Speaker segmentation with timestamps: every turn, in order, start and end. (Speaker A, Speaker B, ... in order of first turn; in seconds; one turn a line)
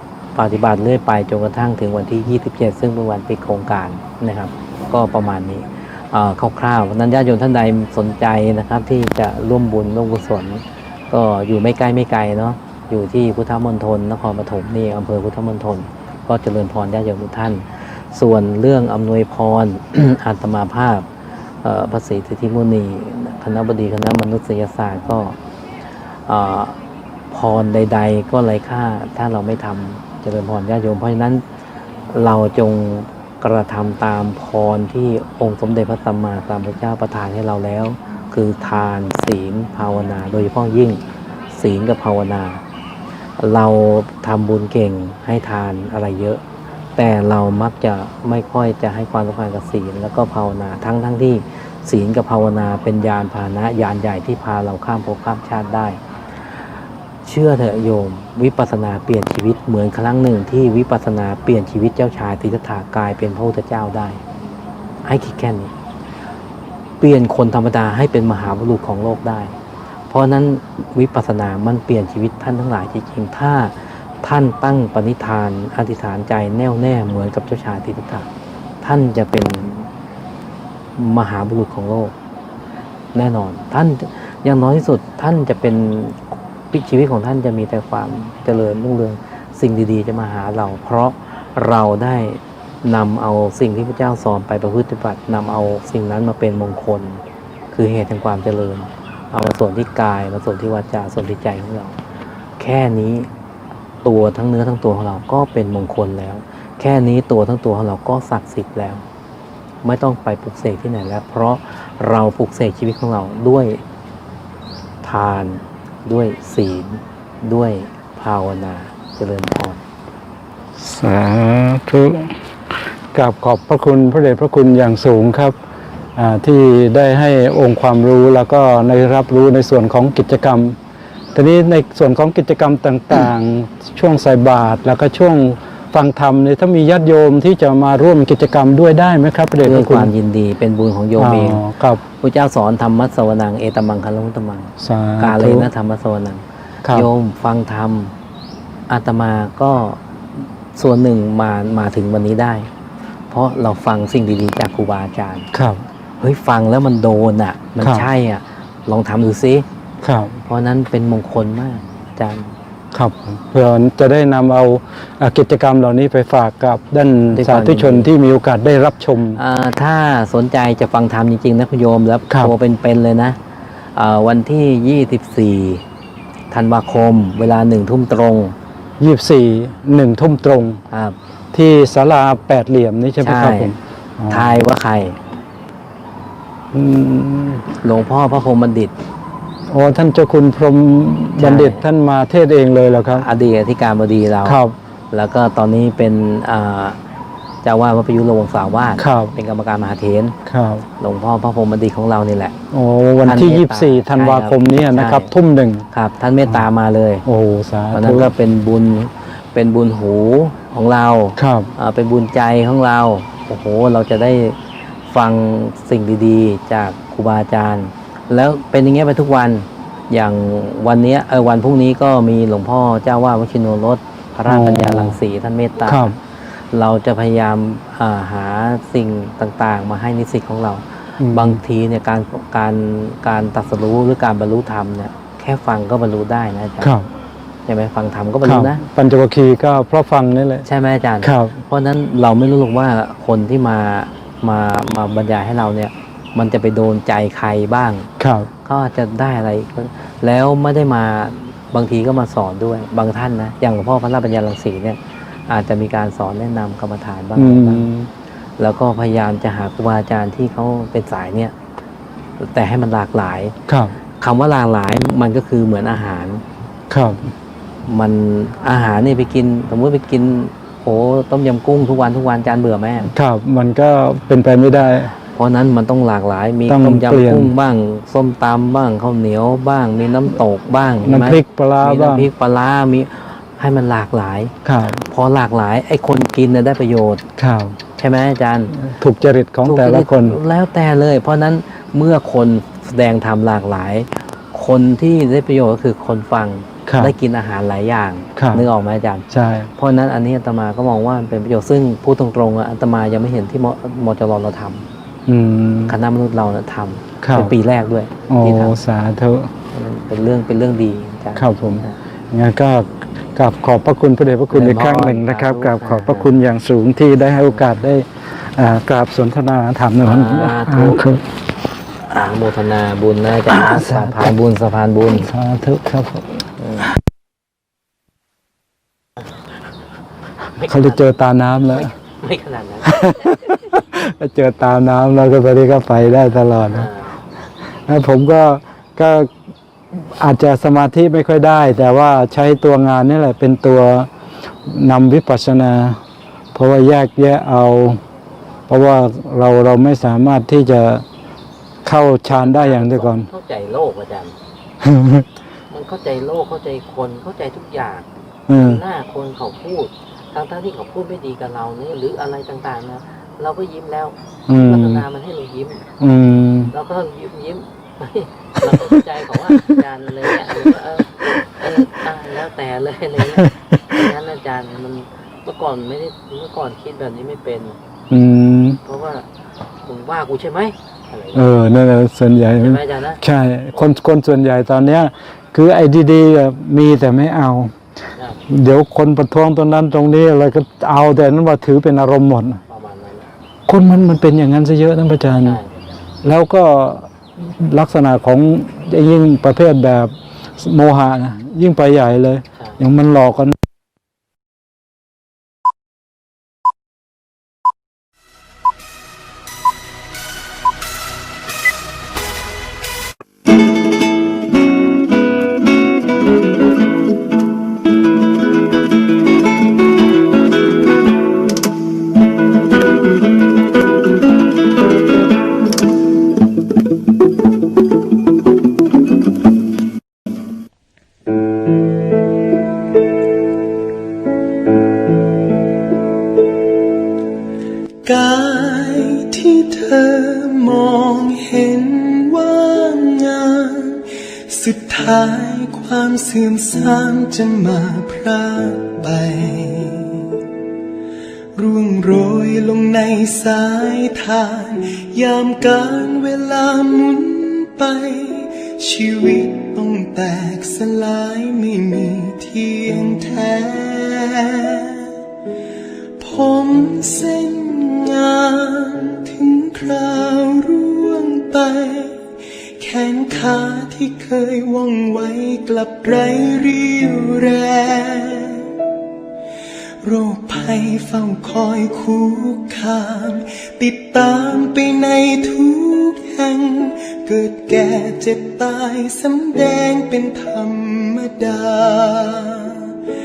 Speaker A: 0.4-21.1
Speaker A: 21.6-25.4
Speaker A: 26.3-26.8
Speaker A: 27.3-31.4
Speaker A: 32.1-41.0
Speaker A: 41.5-42.6
Speaker A: 43.4-46.4
Speaker A: 47.0-56.0
Speaker A: 57.2-64.2
Speaker A: 65.0-65.7
Speaker A: 67.0-69.6
Speaker A: 70.1-78.3
Speaker A: 78.8-79.9
Speaker A: 81.0-82.2
Speaker A: 83.1-97.2
Speaker A: 97.7-102.0
Speaker A: 102.6-103.3
Speaker A: 104.0-109.0
Speaker A: 109.8-113.8
Speaker A: 115.0-119.8
Speaker B: 120.8-122.3
Speaker B: 123.1-125.5
Speaker B: 126.2-130.8
Speaker B: 131.3-140.1
Speaker A: 139.6-141.6
Speaker B: 141.2-142.0
Speaker A: 142.2-148.1
Speaker B: 144.8-145.7
Speaker A: 148.9-152.7
Speaker A: 153.3-155.5
Speaker B: 155.5-155.8
Speaker A: 156.2-159.7
Speaker B: 157.8-158.1
Speaker B: 160.0-160.4
Speaker A: 160.5-162.6
Speaker B: 162.9-169.4
Speaker A: 167.3-168.1
Speaker A: 169.4-173.4
Speaker A: 174.0-175.8
Speaker A: 176.5-178.6
Speaker B: 179.0-180.8
Speaker A: 180.9-181.2
Speaker B: 181.5-184.7
Speaker A: 183.2-183.7
Speaker A: 184.3-185.2
Speaker B: 186.7-187.7
Speaker A: 187.8-188.9
Speaker B: 189.7-193.3
Speaker A: 191.4-191.8
Speaker A: 193.2-194.6
Speaker B: 194.4-194.7
Speaker A: 195.1-197.0
Speaker A: 197.6-200.3
Speaker B: 199.0-199.3
Speaker B: 200.4-200.8
Speaker A: 201.0-202.6
Speaker B: 202.7-205.9
Speaker A: 203.2-205.3
Speaker A: 205.9-207.2
Speaker B: 207.3-208.3
Speaker A: 207.9-214.6
Speaker B: 211.4-211.7
Speaker A: 215.1-236.9
Speaker B: 224.5-225.2
Speaker B: 225.9-226.2
Speaker B: 231.2-231.6
Speaker B: 236.8-237.1
Speaker A: 237.7-238.8
Speaker B: 238.4-240.7
Speaker A: 240.6-248.1
Speaker B: 241.2-241.6
Speaker B: 248.2-248.5
Speaker A: 248.6-257.9
Speaker B: 257.4-258.1
Speaker A: 258.6-261.5
Speaker A: 262.4-263.6
Speaker B: 263.7-263.9
Speaker A: 264.2-266.4
Speaker B: 266.9-267.3
Speaker A: 267.9-273.1
Speaker B: 273.1-275.1
Speaker A: 275.3-287.2
Speaker B: 276.7-277.5
Speaker B: 281.0-282.3
Speaker B: 284.6-285.0
Speaker B: 287.4-287.8
Speaker A: 288.0-288.8
Speaker B: 288.7-290.4
Speaker A: 289.6-304.9
Speaker B: 296.9-297.1
Speaker B: 298.4-298.6
Speaker B: 299.3-299.7
Speaker B: 305.3-306.0
Speaker A: 305.9-308.8
Speaker B: 307.2-307.5
Speaker B: 308.3-309.5
Speaker A: 309.7-312.0
Speaker B: 311.4-321.2
Speaker A: 314.5-316.3
Speaker A: 320.0-321.1
Speaker A: 322.1-325.3
Speaker B: 323.5-324.4
Speaker B: 325.2-326.9
Speaker A: 326.6-326.9
Speaker A: 330.6-331.1
Speaker B: 330.6-331.9
Speaker A: 331.7-333.6
Speaker B: 332.9-336.9
Speaker A: 336.7-337.2
Speaker B: 337.9-339.3
Speaker B: 339.9-344.1
Speaker B: 344.6-346.0
Speaker B: 346.5-348.0
Speaker B: 348.7-351.1
Speaker B: 351.9-353.3
Speaker A: 352.3-354.4
Speaker B: 354.8-355.3
Speaker A: 355.7-365.9
Speaker B: 358.5-358.8
Speaker B: 364.5-365.1
Speaker B: 366.0-366.7
Speaker A: 366.7-377.8
Speaker B: 368.7-369.0
Speaker B: 373.3-374.0
Speaker B: 378.1-378.8
Speaker A: 378.8-379.3
Speaker A: 379.8-381.6
Speaker B: 381.4-387.8
Speaker A: 382.6-383.2
Speaker B: 388.5-392.6
Speaker A: 392.7-393.3
Speaker B: 393.7-395.6
Speaker A: 395.4-395.7
Speaker B: 396.2-403.6
Speaker A: 402.6-402.8
Speaker C: 438.1-450.4
Speaker C: 451.6-465.1
Speaker C: 466.2-472.2
Speaker C: 472.8-478.8
Speaker C: 480.0-493.0